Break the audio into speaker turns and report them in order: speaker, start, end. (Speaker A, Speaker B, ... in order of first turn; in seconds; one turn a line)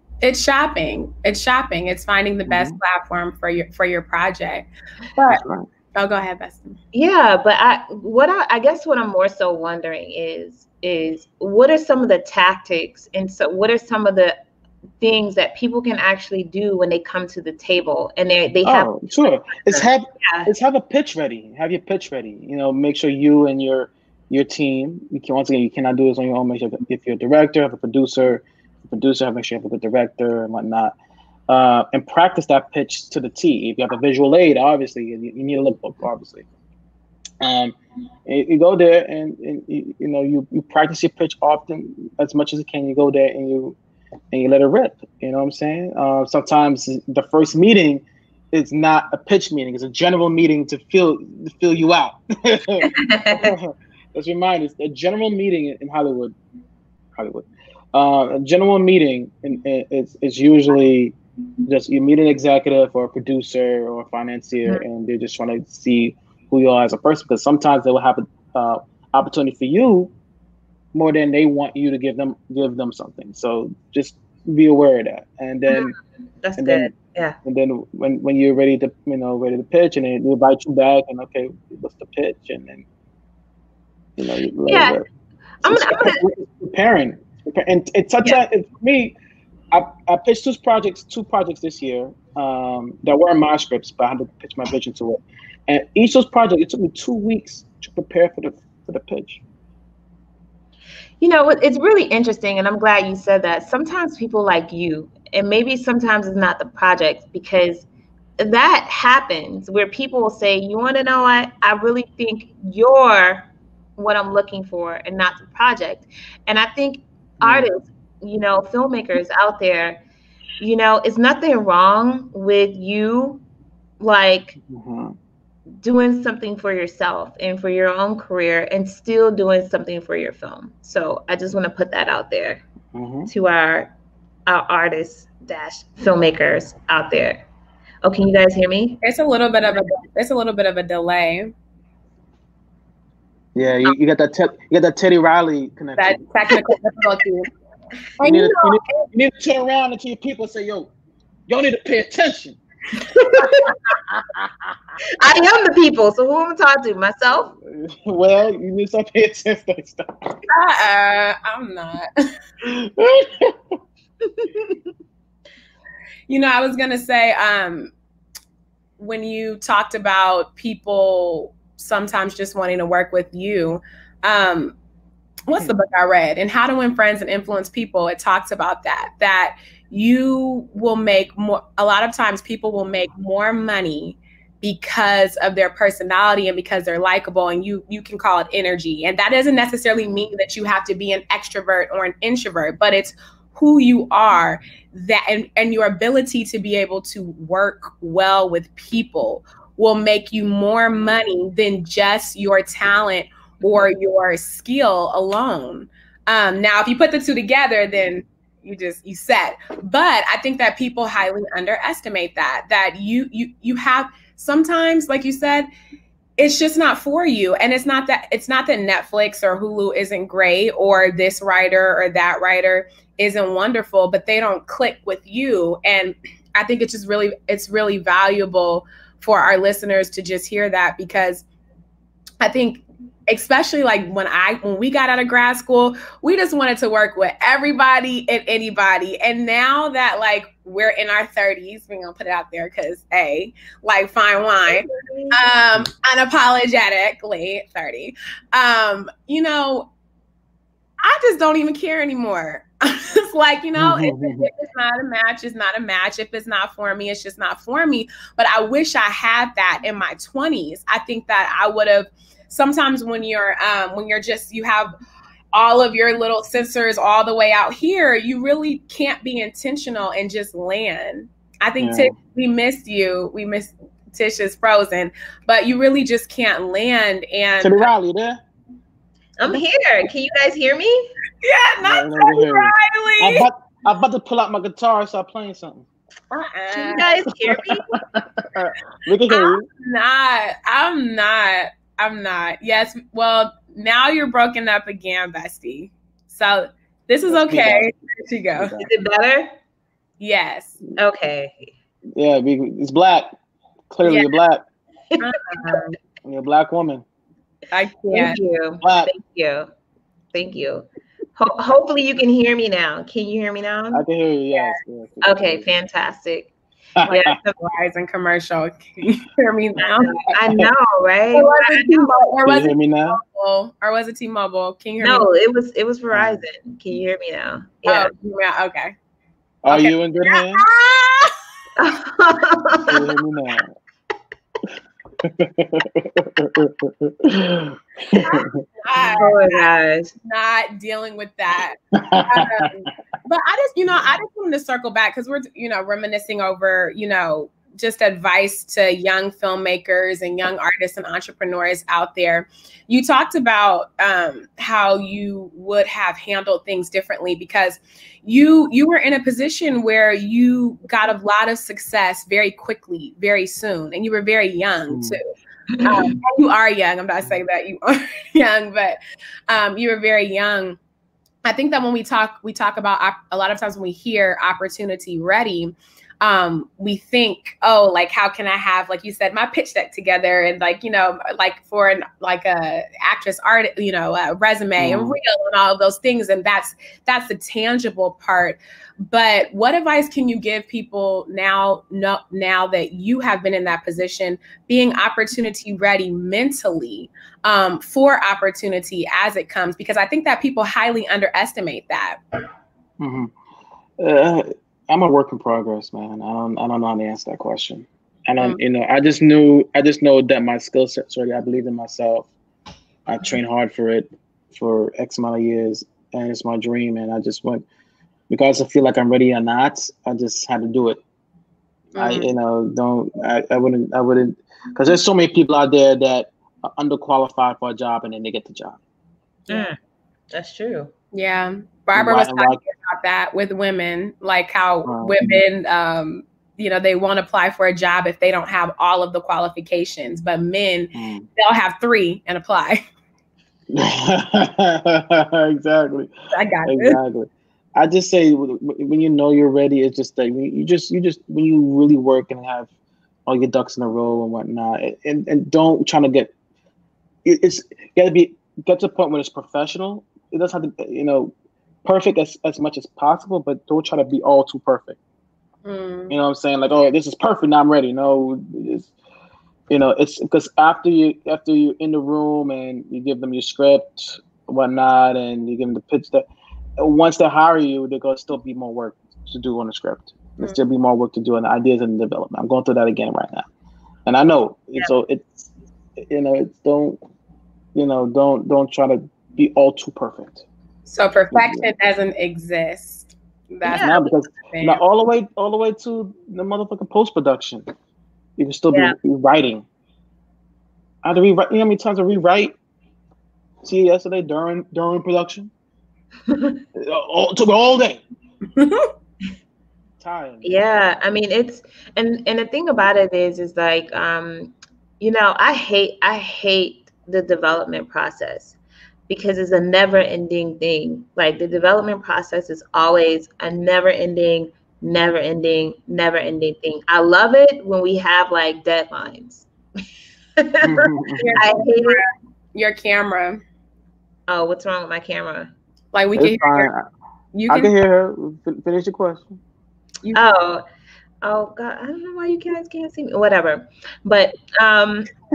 Speaker A: 0.2-5.4
Speaker B: 2.5-2.8
Speaker B: 5.3-5.7
Speaker A: 5.9-6.8
Speaker C: 6.9-14.3
Speaker C: 15.0-20.5
Speaker B: 18.6-30.9
Speaker B: 31.5-36.5
Speaker B: 37.4-43.8
Speaker B: 44.3-56.3
Speaker C: 52.8-53.5
Speaker B: 57.1-61.1
Speaker B: 61.6-70.1
Speaker B: 70.9-76.0
Speaker C: 75.7-77.4
Speaker B: 76.6-76.9
Speaker B: 77.4-82.8
Speaker B: 84.2-85.0
Speaker C: 84.7-85.0
Speaker C: 85.6-86.2
Speaker B: 85.6-89.1
Speaker B: 89.7-99.4
Speaker C: 101.2-107.9
Speaker C: 108.4-120.0
Speaker B: 117.4-117.7
Speaker C: 120.6-123.4
Speaker C: 124.0-124.6
Speaker B: 124.6-125.2
Speaker C: 125.8-132.6
Speaker B: 132.9-133.3
Speaker C: 133.3-133.9
Speaker C: 134.5-137.4
Speaker C: 138.0-139.0
Speaker A: 139.0-141.5
Speaker B: 143.5-146.2
Speaker A: 146.0-147.5
Speaker A: 148.2-149.1
Speaker B: 148.2-150.9
Speaker B: 151.5-152.6
Speaker C: 153.0-153.8
Speaker B: 153.9-154.8
Speaker C: 155.1-157.5
Speaker B: 157.5-160.4
Speaker A: 160.5-162.1
Speaker B: 162.6-163.8
Speaker C: 164.2-164.8
Speaker A: 166.3-167.9
Speaker A: 169.0-174.7
Speaker A: 175.5-215.7
Speaker A: 216.4-231.4
Speaker A: 232.4-249.9
Speaker C: 244.7-245.4
Speaker A: 251.0-264.9
Speaker B: 253.8-254.5
Speaker A: 265.5-277.9
Speaker B: 271.8-272.1
Speaker B: 277.6-278.4
Speaker C: 279.4-281.1
Speaker A: 281.4-283.5
Speaker B: 281.8-285.9
Speaker A: 286.3-287.2
Speaker C: 286.7-287.9
Speaker B: 287.5-289.7
Speaker A: 289.3-298.8
Speaker B: 297.3-297.9
Speaker B: 298.6-298.9
Speaker C: 298.8-299.5
Speaker A: 300.2-300.8
Speaker C: 300.9-301.7
Speaker B: 302.1-303.3
Speaker B: 303.9-304.6
Speaker A: 304.0-304.3
Speaker C: 305.1-305.8
Speaker A: 305.2-306.0
Speaker B: 306.2-307.0
Speaker A: 307.7-308.4
Speaker C: 308.1-309.7
Speaker B: 308.8-309.1
Speaker C: 310.3-314.0
Speaker B: 313.9-315.6
Speaker C: 314.5-316.5
Speaker B: 317.0-317.3
Speaker C: 317.0-317.6
Speaker A: 317.6-320.1
Speaker C: 319.8-322.3
Speaker A: 321.3-325.3
Speaker B: 322.4-323.2
Speaker C: 325.0-328.1
Speaker B: 326.1-326.4
Speaker A: 327.9-328.9
Speaker B: 329.6-330.6
Speaker A: 329.7-331.3
Speaker C: 331.8-333.1
Speaker B: 332.9-333.7
Speaker B: 335.2-338.6
Speaker A: 338.1-365.3
Speaker C: 339.1-340.1
Speaker B: 341.9-342.7
Speaker B: 364.9-365.2
Speaker C: 365.7-366.1
Speaker A: 365.8-369.0
Speaker A: 369.5-370.8
Speaker A: 371.4-402.2
Speaker B: 384.8-385.2
Speaker B: 403.0-403.3
Speaker B: 404.0-412.3
Speaker B: 413.1-417.6
Speaker B: 418.3-421.0
Speaker A: 421.9-422.3
Speaker B: 421.9-428.8
Speaker C: 429.5-429.8
Speaker C: 430.3-430.9
Speaker A: 431.1-442.8
Speaker B: 431.9-432.6
Speaker B: 434.9-435.4
Speaker B: 440.9-441.3
Speaker B: 443.7-446.1
Speaker A: 446.3-447.0
Speaker B: 446.6-452.7
Speaker B: 453.3-456.3
Speaker B: 457.2-461.3
Speaker B: 461.8-465.0
Speaker A: 465.6-466.1
Speaker B: 466.1-468.9
Speaker B: 469.7-476.2
Speaker B: 476.8-483.5
Speaker B: 484.1-487.0
Speaker B: 487.7-490.4
Speaker A: 490.9-494.8
Speaker B: 491.3-491.7
Speaker C: 493.6-494.0
Speaker B: 493.7-497.6
Speaker B: 498.4-499.6
Speaker B: 501.0-502.5
Speaker B: 503.6-505.5
Speaker C: 506.3-506.6
Speaker B: 506.7-508.0
Speaker A: 508.6-508.9
Speaker B: 510.0-510.6
Speaker C: 510.4-518.6
Speaker C: 519.1-529.5
Speaker C: 530.4-532.0
Speaker B: 530.6-531.4
Speaker A: 531.2-533.4
Speaker C: 534.3-535.5
Speaker A: 535.9-536.7
Speaker B: 536.1-536.8
Speaker A: 537.3-537.7
Speaker B: 537.5-539.4
Speaker C: 540.1-540.6
Speaker C: 541.2-545.1